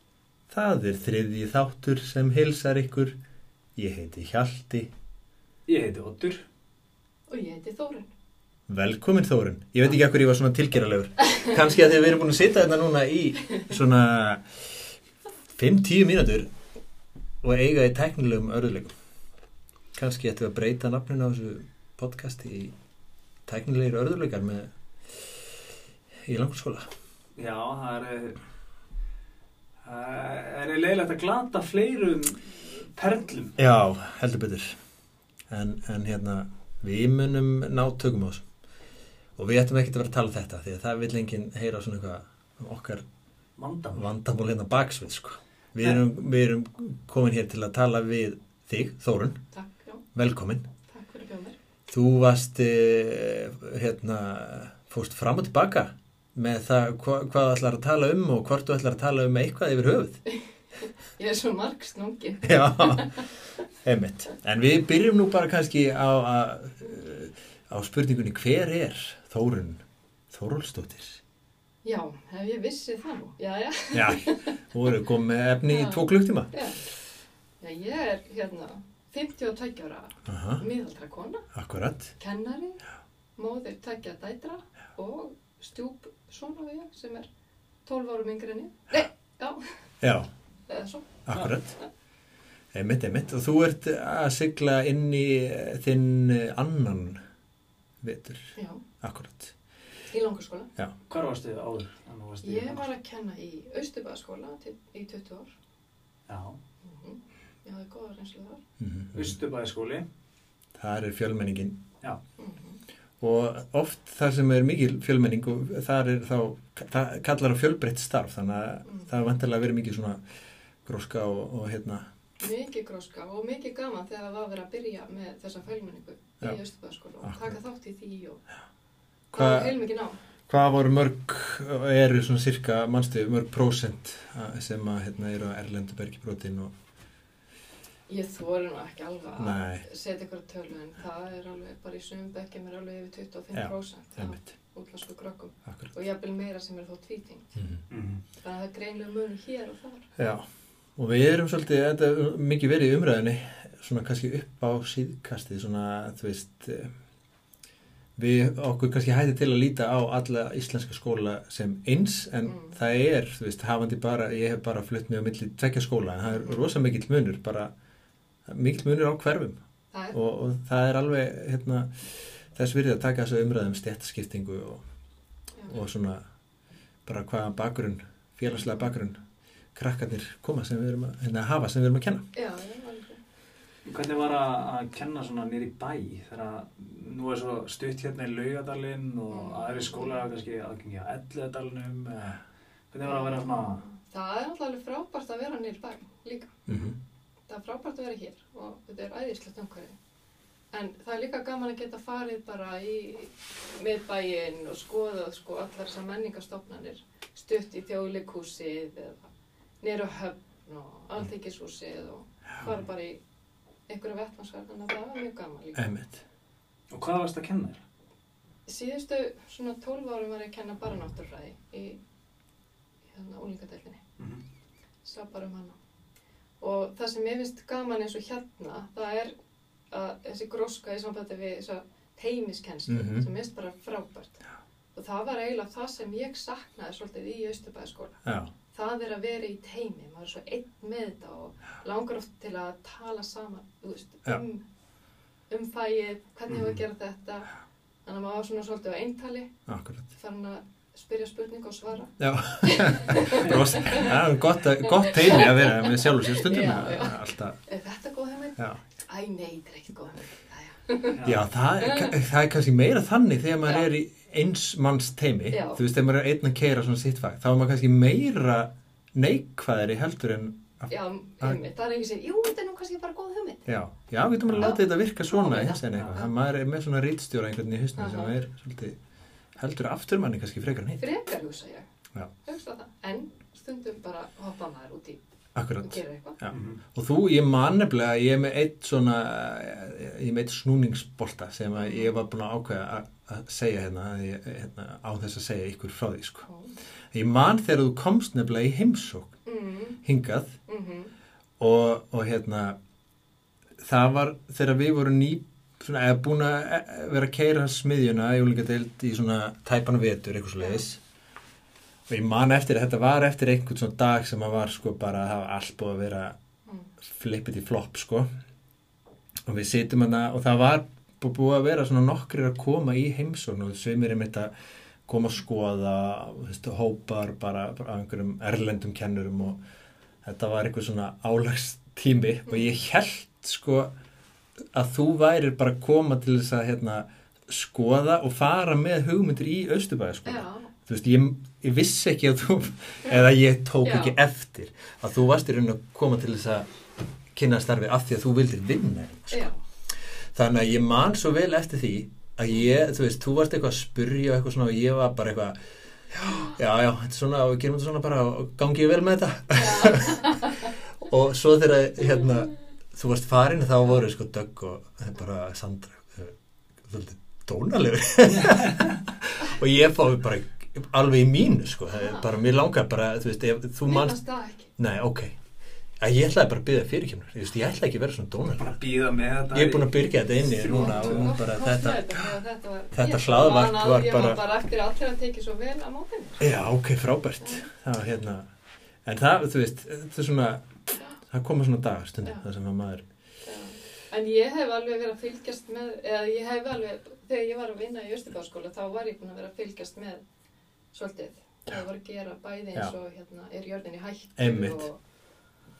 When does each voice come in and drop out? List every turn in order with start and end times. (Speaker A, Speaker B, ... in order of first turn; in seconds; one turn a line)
Speaker A: 0.5-3.2
Speaker A: 3.8-4.9
Speaker B: 5.7-6.4
Speaker C: 7.3-8.1
Speaker A: 8.7-14.4
Speaker A: 15.5-16.5
Speaker A: 17.4-18.9
Speaker A: 19.9-22.7
Speaker A: 23.4-25.3
Speaker A: 26.2-26.9
Speaker B: 27.4-28.4
Speaker B: 29.8-33.5
Speaker A: 33.6-34.8
Speaker A: 35.5-38.4
Speaker A: 39.4-43.0
Speaker B: 43.6-44.0
Speaker A: 43.9-49.4
Speaker C: 49.5-50.0
Speaker A: 50.1-50.6
Speaker C: 50.9-51.5
Speaker A: 51.9-60.2
Speaker C: 60.3-63.2
Speaker A: 62.4-63.2
Speaker A: 63.8-71.2
Speaker C: 71.8-74.6
Speaker A: 73.9-76.5
Speaker C: 75.7-76.9
Speaker C: 77.6-81.5
Speaker A: 80.2-80.6
Speaker A: 81.5-82.1
Speaker C: 82.2-82.8
Speaker C: 83.4-87.3
Speaker C: 87.8-89.6
Speaker A: 90.0-90.3
Speaker C: 90.7-91.1
Speaker A: 91.2-91.8
Speaker A: 92.7-97.2
Speaker A: 98.0-99.5
Speaker C: 98.5-98.8
Speaker C: 100.1-100.7
Speaker B: 101.1-102.9
Speaker C: 102.4-105.5
Speaker B: 106.3-106.6
Speaker C: 106.8-108.6
Speaker A: 108.8-109.3
Speaker B: 109.1-110.0
Speaker A: 110.8-111.8
Speaker C: 112.4-112.8
Speaker A: 113.2-120.2
Speaker A: 120.8-122.0
Speaker C: 122.4-128.4
Speaker A: 127.2-127.6
Speaker A: 129.3-129.8
Speaker C: 129.3-130.2
Speaker A: 130.5-136.7
Speaker C: 138.1-147.6
Speaker A: 139.3-139.8
Speaker A: 143.5-144.5
Speaker A: 145.7-145.9
Speaker B: 147.9-148.2
Speaker C: 148.4-150.1
Speaker A: 150.2-150.4
Speaker A: 151.0-156.9
Speaker A: 158.2-167.7
Speaker C: 162.4-162.8
Speaker C: 166.3-166.6
Speaker A: 168.5-169.6
Speaker C: 169.9-170.2
Speaker A: 170.1-174.8
Speaker A: 175.7-176.2
Speaker A: 177.1-179.2
Speaker A: 179.7-182.2
Speaker C: 182.3-183.2
Speaker B: 183.8-193.8
Speaker C: 189.3-190.2
Speaker C: 193.0-196.5
Speaker A: 196.7-197.0
Speaker C: 197.5-199.9
Speaker C: 200.7-209.2
Speaker C: 209.8-213.2
Speaker C: 213.9-215.9
Speaker A: 215.8-216.2
Speaker B: 216.9-217.8
Speaker C: 218.7-222.0
Speaker C: 223.1-224.0
Speaker B: 224.2-224.4
Speaker C: 225.0-225.8
Speaker C: 226.6-229.3
Speaker C: 229.9-234.4
Speaker A: 232.9-233.3
Speaker C: 234.9-244.6
Speaker A: 238.2-238.5
Speaker C: 245.5-247.5
Speaker C: 248.1-249.5
Speaker A: 249.7-250.1
Speaker C: 250.1-254.2
Speaker A: 252.2-257.6
Speaker C: 254.8-261.2
Speaker B: 261.1-261.4
Speaker A: 261.2-271.6
Speaker C: 261.8-262.1
Speaker C: 265.5-265.8
Speaker C: 270.9-273.7
Speaker A: 273.6-279.0
Speaker B: 274.5-274.7
Speaker C: 274.6-276.3
Speaker C: 277.9-278.3
Speaker A: 279.6-281.0
Speaker C: 281.0-281.9
Speaker C: 282.4-285.2
Speaker A: 285.5-296.5
Speaker C: 285.8-286.4
Speaker B: 286.5-286.8
Speaker C: 291.8-292.2
Speaker C: 296.5-296.7
Speaker A: 297.1-299.4
Speaker C: 299.4-300.0
Speaker A: 300.0-300.6
Speaker C: 300.7-301.1
Speaker A: 301.6-302.8
Speaker A: 303.8-311.0
Speaker C: 310.6-310.8
Speaker A: 312.1-316.4
Speaker C: 316.6-316.9
Speaker A: 317.0-318.3
Speaker A: 319.5-324.5
Speaker A: 325.1-329.6
Speaker A: 330.2-333.9
Speaker A: 334.7-346.7
Speaker C: 340.2-340.7
Speaker C: 343.8-344.2
Speaker A: 347.3-349.5
Speaker C: 349.3-349.6
Speaker A: 350.3-355.6
Speaker A: 356.1-360.4
Speaker C: 359.5-360.7
Speaker A: 361.0-375.4
Speaker C: 371.9-372.3
Speaker C: 373.9-374.7
Speaker A: 376.0-378.7
Speaker B: 378.6-381.4
Speaker A: 379.5-382.4
Speaker C: 380.7-386.5
Speaker A: 382.9-384.5
Speaker A: 386.4-388.5
Speaker C: 387.4-387.7
Speaker A: 389.0-393.0
Speaker C: 393.4-400.2
Speaker C: 400.9-405.0
Speaker A: 404.4-404.9